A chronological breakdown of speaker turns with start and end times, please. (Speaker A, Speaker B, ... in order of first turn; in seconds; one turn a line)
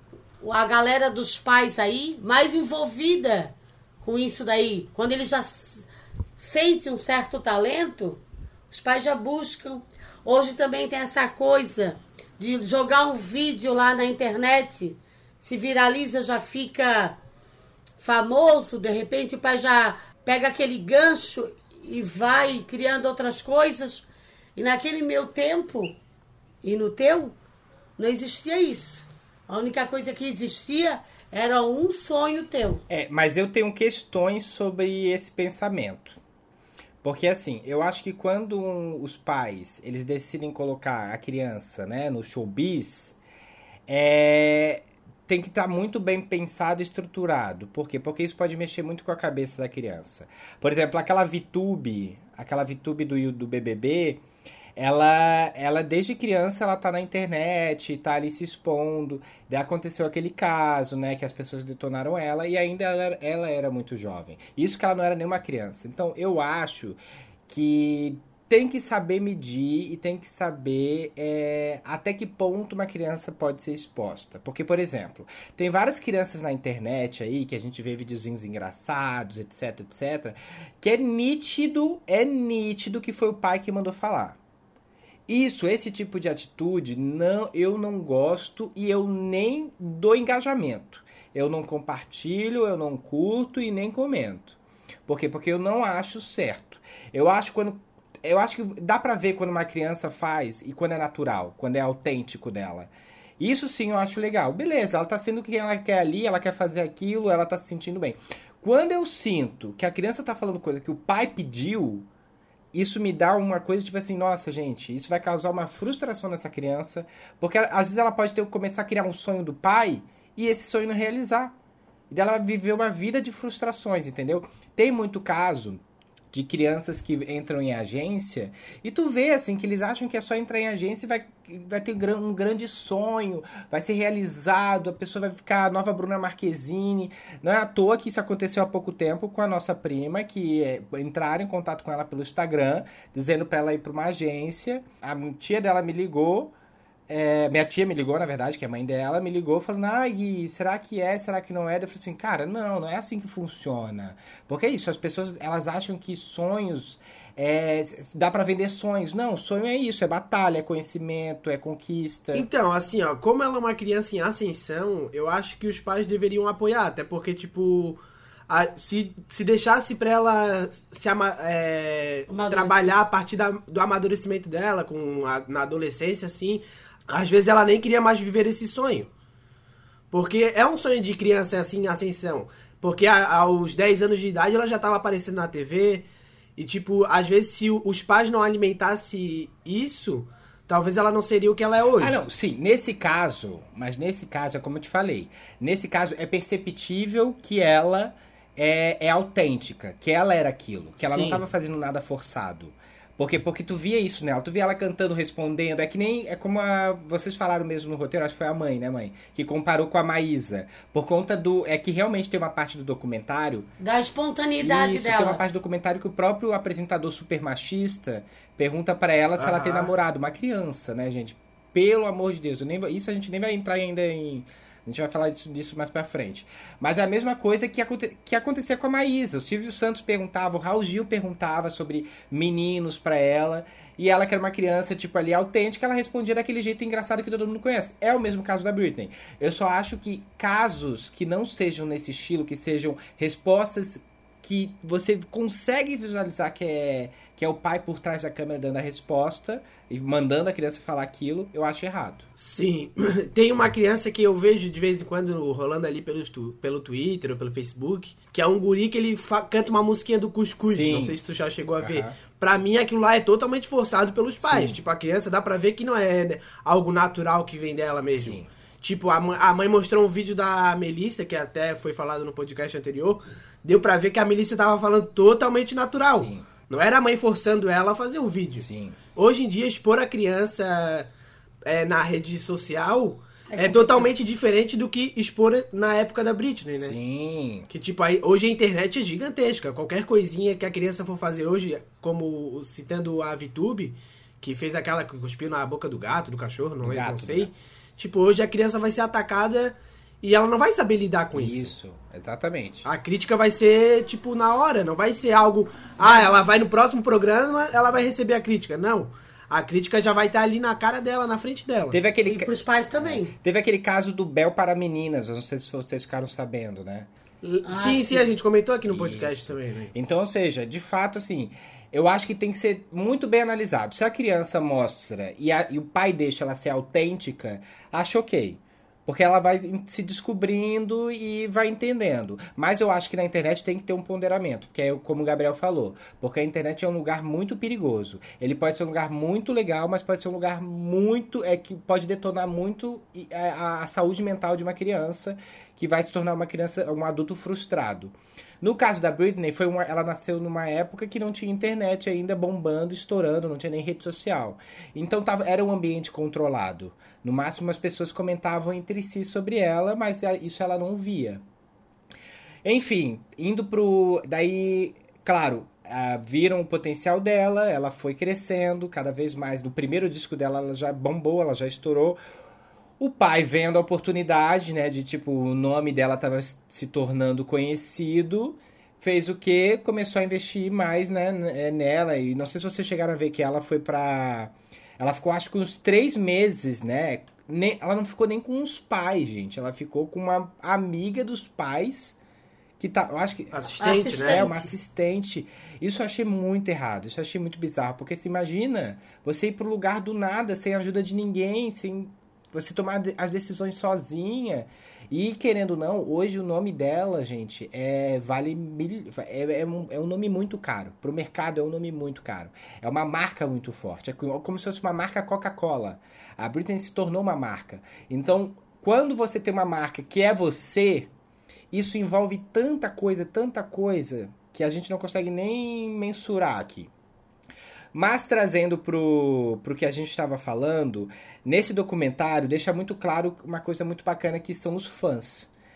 Speaker A: 0.4-17.2
Speaker A: 18.0-26.0
Speaker A: 26.6-27.4
Speaker A: 28.0-32.8
Speaker B: 32.9-36.2
Speaker B: 37.0-43.2
Speaker B: 43.9-54.2
Speaker B: 54.8-84.4
Speaker B: 85.3-112.1
Speaker B: 112.7-121.5
Speaker B: 122.1-125.8
Speaker B: 126.3-146.5
Speaker B: 147.1-162.5
Speaker C: 162.3-179.1
Speaker A: 172.3-172.9
Speaker C: 180.1-186.1
Speaker C: 186.6-192.2
Speaker B: 192.0-213.7
Speaker C: 201.0-201.4
Speaker A: 213.8-215.4
Speaker B: 214.6-252.2
Speaker C: 219.4-219.9
Speaker C: 252.4-281.1
Speaker B: 260.6-261.2
Speaker B: 261.8-262.2
Speaker B: 264.4-264.8
Speaker B: 268.1-268.5
Speaker B: 276.2-276.5
Speaker B: 278.6-279.0
Speaker C: 281.6-287.0
Speaker A: 283.5-284.1
Speaker B: 286.8-287.7
Speaker C: 287.7-301.7
Speaker B: 296.8-297.5
Speaker B: 301.3-302.9
Speaker C: 302.9-312.0
Speaker B: 306.0-306.4
Speaker B: 311.9-317.1
Speaker A: 312.2-313.3
Speaker A: 317.4-318.3
Speaker C: 317.7-319.9
Speaker B: 318.9-361.4
Speaker B: 362.6-372.2
Speaker B: 373.0-392.2
Speaker B: 392.8-421.1
Speaker C: 393.5-394.5
Speaker A: 393.8-394.7
Speaker B: 421.7-426.9
Speaker B: 427.9-435.5